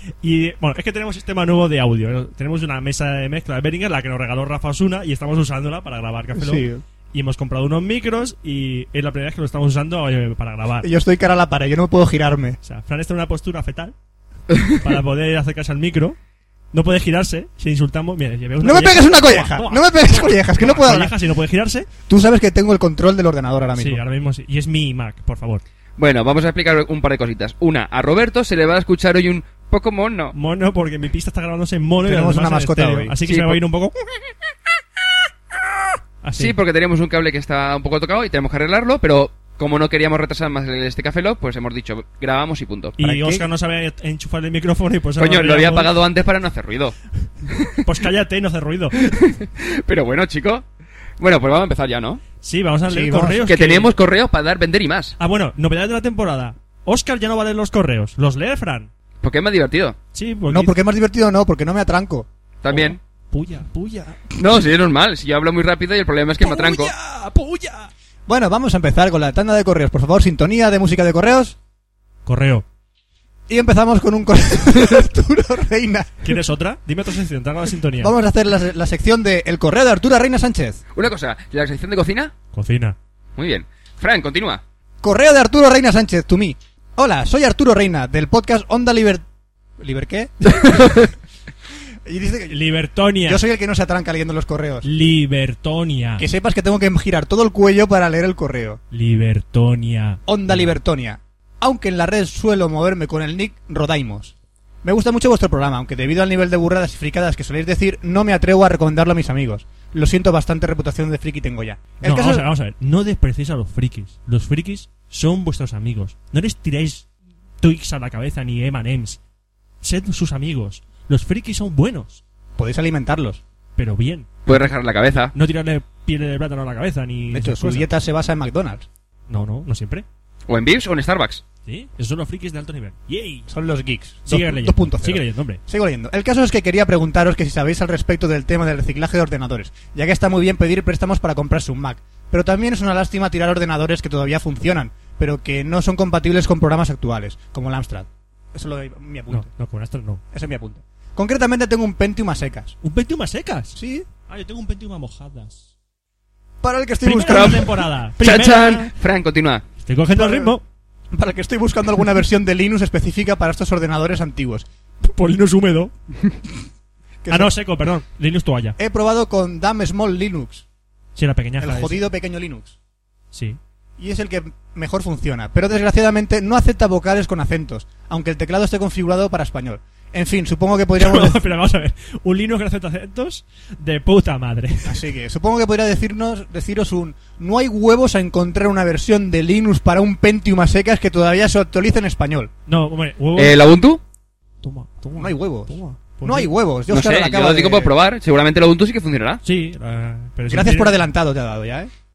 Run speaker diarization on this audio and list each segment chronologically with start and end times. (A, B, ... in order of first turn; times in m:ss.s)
0:00.2-0:10.9 A
0:06.4-0:06.8 B
0:10.8-0:12.6 B
0:12.6-0:13.9 A
0:14.7-0:16.2 A
0:16.7-0:21.9 A
0:18.6-0:21.2 B
0:22.1-0:24.0 B
0:23.8-0:25.6 A
0:26.0-0:30.3 C
0:30.3-0:34.0 A
0:32.0-0:33.2 B
0:33.3-0:33.6 C
0:36.2-0:36.5 A
0:36.4-0:43.0 C
0:43.0-0:45.9 A
0:43.0-0:43.4 B
0:45.2-0:47.0 C
0:47.8-0:49.1 A
0:49.1-0:50.6 C
0:51.2-0:52.2 C
0:52.4-0:53.9 A
0:52.9-0:53.4 B
0:53.5-0:55.2 C
0:55.2-0:58.9 A
0:59.2-1:00.0 C
1:00.1-1:00.8 A
1:00.5-1:02.3 B
1:02.6-1:03.0 C
1:02.7-1:04.3 A
1:04.4-1:06.9 C
1:06.4-1:07.9 A
1:08.3-1:11.6 B
1:12.3-1:12.6 A
1:13.5-1:16.3 B
1:16.2-1:18.1 A
1:18.0-1:20.8 B
1:20.9-1:22.3 C
1:22.5-1:23.0 A
1:23.4-1:24.6 C
1:25.0-1:29.2 B
1:29.8-1:30.4 B
1:30.5-1:31.0 A
1:32.1-1:32.6 B
1:32.5-1:33.4 A
1:33.3-1:34.9 B
1:34.8-1:36.2 A
1:36.2-1:38.8 B
1:38.9-1:40.7 A
1:40.3-1:52.5 B
1:52.0-1:57.1 A
1:57.6-1:59.2 A
1:59.8-2:02.2 A
2:02.6-2:03.4 B
2:03.8-2:04.7 A
2:04.5-2:05.3 C
2:05.3-2:07.9 A
2:07.3-2:08.9 B
2:09.3-2:10.1 A
2:10.5-2:11.4 C
2:11.7-2:13.5 A
2:13.5-2:29.5 B
2:14.3-2:15.6 A
2:29.3-2:30.2 A
2:30.3-2:32.8 B
2:32.8-2:33.8 A
2:33.8-2:34.1 B
2:34.3-2:35.6 A
2:36.6-2:37.8 B
2:37.0-2:38.9 A
2:37.2-2:37.7 C
2:38.2-2:39.6 C
2:39.8-2:40.6 A
2:40.1-2:40.6 B
2:41.1-2:44.7 B
2:45.0-2:45.9 A
2:47.2-2:47.5 B
2:47.3-2:48.8 A
2:48.8-2:50.6 B
2:51.2-2:52.0 A
2:51.6-2:52.8 B
2:53.3-2:53.6 A
2:54.0-3:01.4 B
3:01.0-3:05.0 A
3:04.9-3:12.5 B
3:12.7-3:13.6 A
3:13.4-3:14.0 C
3:14.6-3:16.5 A
3:15.2-3:17.9 B
3:16.9-3:19.4 C
3:19.4-3:21.0 A
3:20.5-3:21.9 B